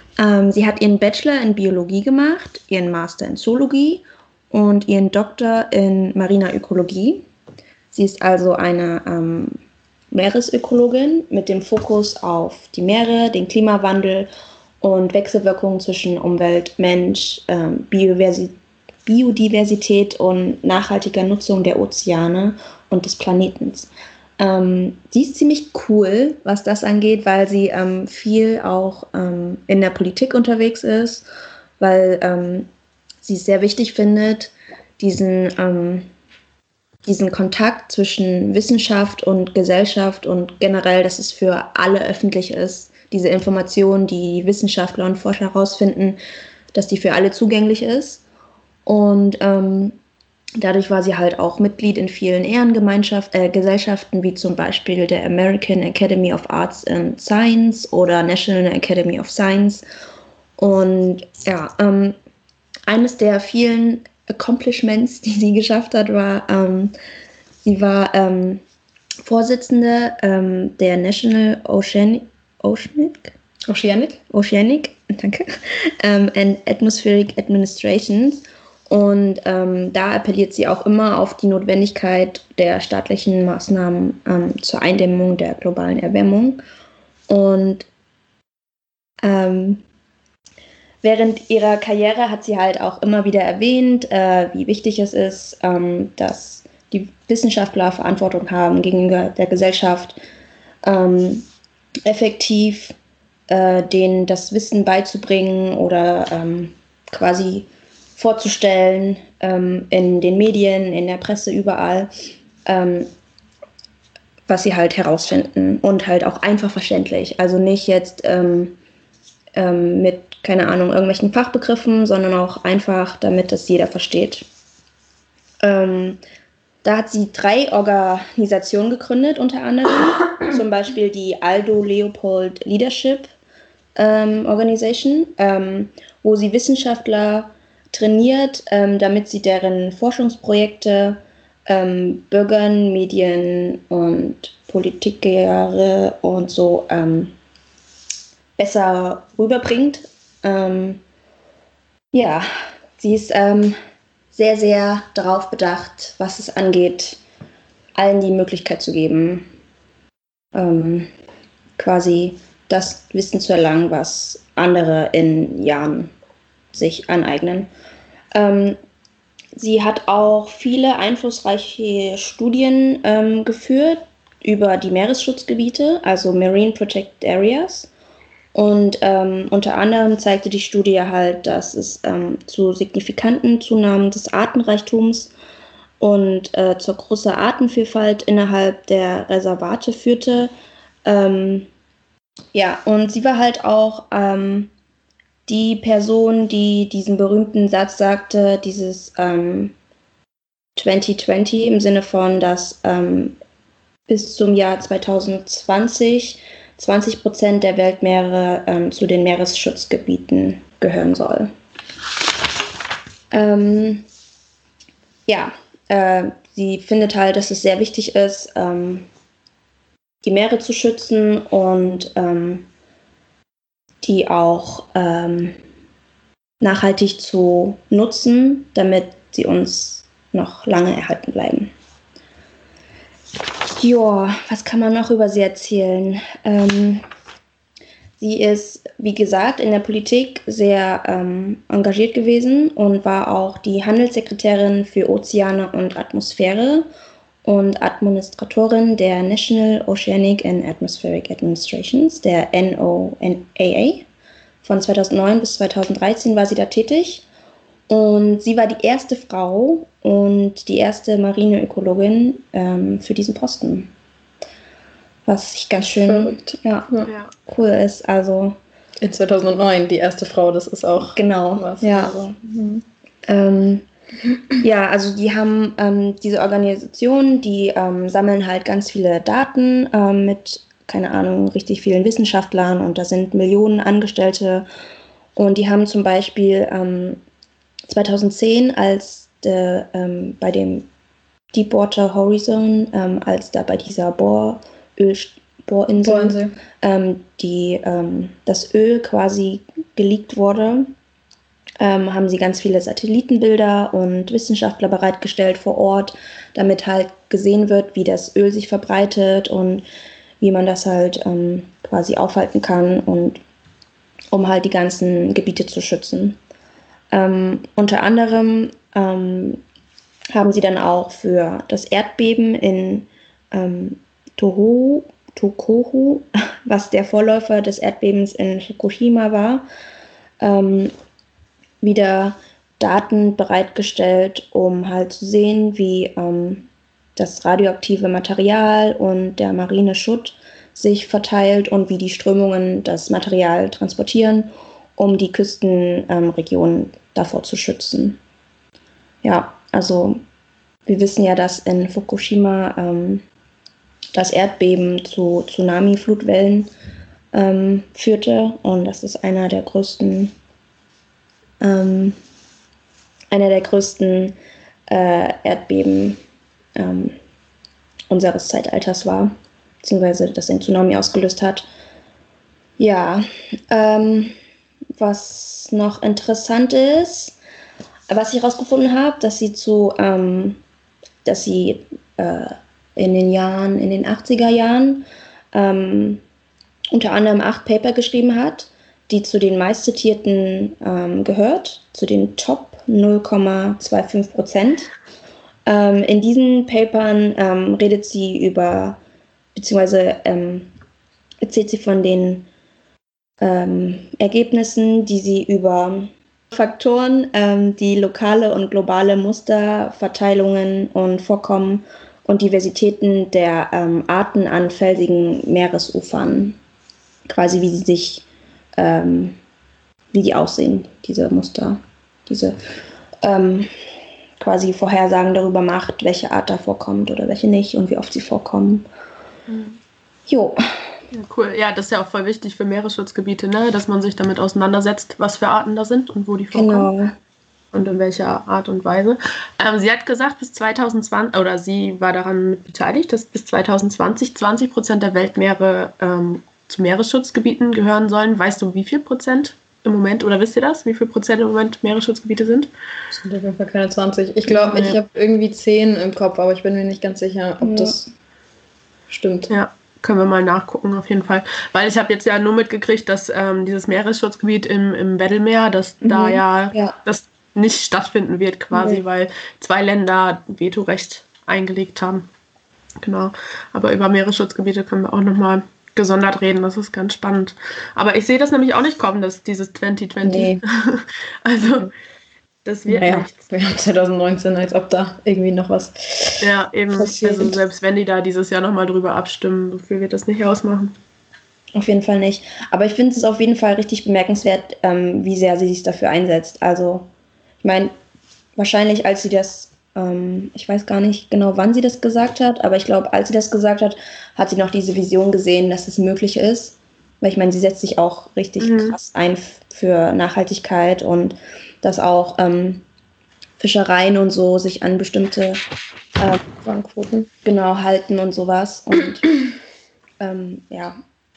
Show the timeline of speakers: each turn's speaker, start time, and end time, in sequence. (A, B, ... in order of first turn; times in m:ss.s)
0:00.2-0:07.2 A
0:07.9-0:09.6 A
0:10.1-0:14.3 A
0:14.8-0:31.3 A
0:31.8-0:32.7 A
0:33.2-0:36.1 A
0:37.0-0:46.2 A
0:46.7-0:48.2 A
0:48.8-0:50.0 A
0:50.6-0:59.8 A
1:00.6-1:02.1 A
1:02.9-1:06.9 A
1:07.6-1:08.6 A
1:09.2-1:13.3 A
1:13.7-1:14.2 B
1:14.3-1:26.6 A
1:27.3-1:27.8 A
1:29.2-1:29.8 A
1:31.0-1:40.2 A
1:40.8-1:41.5 A
1:42.0-1:42.9 A
1:43.5-1:52.1 A
1:52.6-1:53.1 A
1:54.5-1:58.8 A
1:59.5-2:04.4 A
2:05.6-2:06.2 A
2:06.8-2:13.3 A
2:14.0-2:27.3 A
2:28.6-2:31.0 A
2:32.1-2:33.8 A
2:34.3-2:37.2 A
2:37.9-2:39.5 A
2:40.5-2:41.1 A
2:41.8-2:46.1 A
2:46.7-2:47.7 A
2:48.3-2:48.8 A
2:49.5-2:57.9 A
2:58.5-3:05.3 A
3:06.0-3:10.5 A
3:11.0-3:11.7 A
3:12.5-3:14.7 A
3:15.4-3:19.7 A
3:20.8-3:23.4 A
3:24.1-3:31.5 A
3:33.3-3:34.0 A
3:35.3-3:39.1 A
3:40.2-3:42.6 A
3:44.0-3:45.6 A
3:46.6-3:51.7 A
3:53.8-3:57.0 A
3:58.2-4:06.8 A
4:07.4-4:14.1 A
4:14.6-4:17.2 A
4:17.9-4:23.9 A
4:25.2-4:26.9 A
4:26.0-4:27.1 B
4:27.0-4:27.3 C
4:27.5-4:28.6 A
4:29.0-4:32.8 B
4:31.0-4:32.3 A
4:33.2-4:33.8 A
4:34.6-4:44.6 A
4:45.3-4:47.2 A
4:47.9-4:50.9 A
4:51.5-5:00.9 A
4:56.0-4:56.6 B
5:01.8-5:09.8 A
5:10.4-5:13.4 A
5:14.3-5:16.4 A
5:17.1-5:19.6 A
5:20.3-5:29.6 A
5:30.4-5:30.9 A
5:31.8-5:48.2 A
5:49.2-5:50.2 A
5:50.9-5:53.2 A
5:54.1-5:56.7 A
5:57.3-6:00.3 A
6:01.6-6:02.2 A
6:03.3-6:04.4 A
6:04.9-6:06.2 A
6:06.8-6:07.2 A
6:08.1-6:11.7 A
6:12.8-6:14.3 A
6:15.0-6:17.3 A
6:18.1-6:20.6 A
6:21.2-6:26.2 A
6:26.9-6:34.9 A
6:35.6-6:39.0 A
6:39.5-6:40.7 A
6:41.4-6:42.4 A
6:43.4-6:56.6 A
6:57.2-6:58.2 A
6:58.8-6:59.4 A
7:00.1-7:02.6 A
7:03.2-7:03.7 A
7:04.4-7:08.8 A
7:09.5-7:09.8 C
7:10.3-7:10.8 A
7:11.1-7:16.9 C
7:16.5-7:17.2 A
7:17.7-7:32.7 C
7:33.1-7:38.0 B
7:34.5-7:35.0 C
7:37.6-7:38.0 A
7:39.1-7:39.5 B
7:39.5-7:52.3 C
7:46.0-7:47.0 A
7:48.7-7:49.0 A
7:53.0-8:01.9 C
8:00.2-8:00.6 B
8:02.6-8:03.4 C
8:02.9-8:06.4 B
8:06.4-8:10.9 C
8:07.0-8:07.5 B
8:11.7-8:17.1 A
8:17.6-8:17.9 A
8:18.6-8:32.8 A
8:28.6-8:29.0 C
8:33.6-8:35.6 A
8:36.2-8:36.5 A
8:36.6-8:37.3 B
8:37.4-8:39.3 A
8:40.2-8:41.0 A